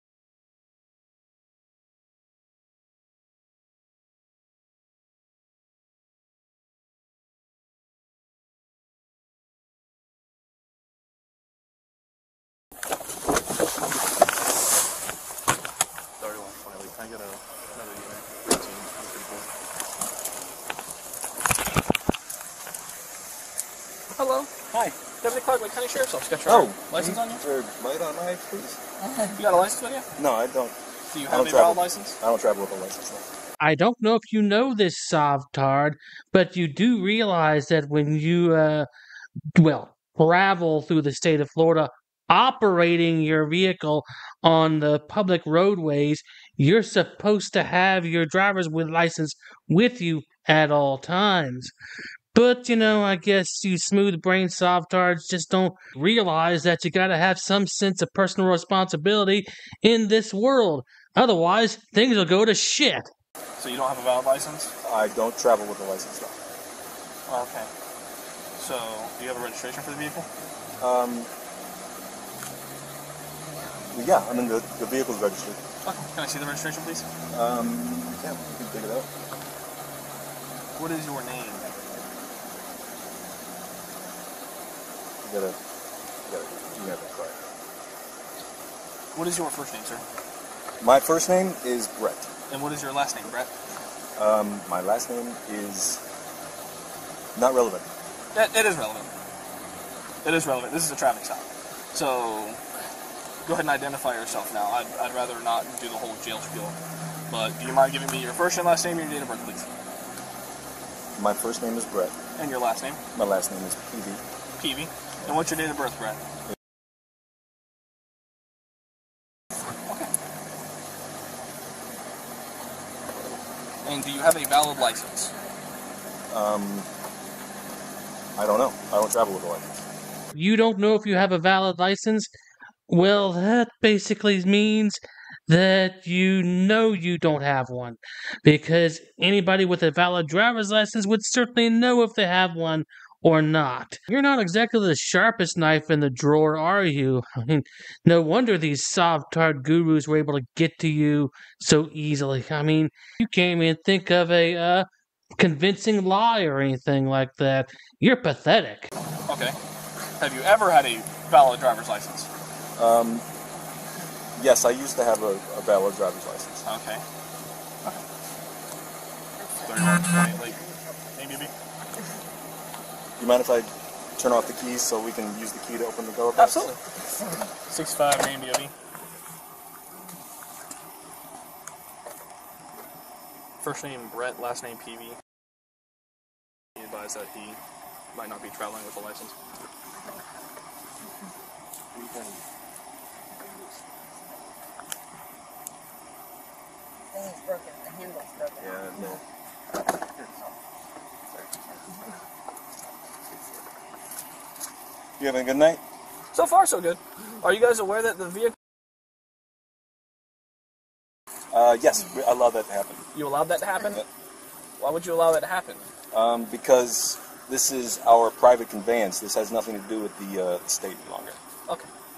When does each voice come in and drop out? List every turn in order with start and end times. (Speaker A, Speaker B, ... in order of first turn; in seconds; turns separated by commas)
Speaker A: 16.2-19.5, Speaker A: 24.1-24.5, Speaker A: 25.2-27.4, Speaker B: 26.5-28.8, Speaker A: 29.3-30.1, Speaker B: 30.2-30.8, Speaker A: 31.1-32.2, Speaker B: 31.3-33.3, Speaker C: 33.6-38.9, Speaker C: 39.5-51.7, Speaker C: 52.3-63.1, Speaker A: 63.6-64.7, Speaker B: 64.8-66.4, Speaker A: 67.3-67.7, Speaker A: 68.6-70.3, Speaker B: 70.8-71.3, Speaker B: 73.9-75.6, Speaker A: 75.8-77.1, Speaker B: 77.3-79.1, Speaker A: 80.8-81.7, Speaker B: 85.2-85.6, Speaker B: 86.3-87.4, Speaker A: 89.1-90.0, Speaker B: 90.8-92.3, Speaker A: 92.5-93.5, Speaker B: 94.2-96.0, Speaker B: 97.3-97.9, Speaker A: 98.3-99.1, Speaker A: 100.2-102.6, Speaker A: 103.5-106.8, Speaker A: 107.3-109.7, Speaker B: 111.2-112.2, Speaker A: 112.4-113.0, Speaker B: 113.1-114.2, Speaker A: 114.6-116.2, Speaker A: 123.8-125.3, Speaker B: 126.3-126.9, Speaker B: 128.4-129.9, Speaker C: 130.3-132.3, Speaker C: 132.9-154.9, Speaker C: 155.4-158.9, Speaker A: 159.3-159.6, Speaker A: 160.2-162.3, Speaker B: 162.8-163.3, Speaker B: 164.3-166.6, Speaker A: 166.7-167.0, Speaker D: 169.4-169.7, Speaker A: 169.6-170.6, Speaker A: 171.1-171.5, Speaker B: 173.2-176.7, Speaker A: 176.4-176.8, Speaker A: 177.7-178.7, Speaker A: 183.6-185.2, Speaker A: 186.8-187.6, Speaker A: 188.1-189.3, Speaker D: 189.9-190.4, Speaker B: 191.9-192.4, Speaker D: 197.1-198.6, Speaker B: 198.6-199.2, Speaker B: 205.2-205.8, Speaker A: 206.3-208.6, Speaker B: 211.5-213.0, Speaker A: 213.1-214.0, Speaker A: 214.8-215.8, Speaker B: 216.1-221.4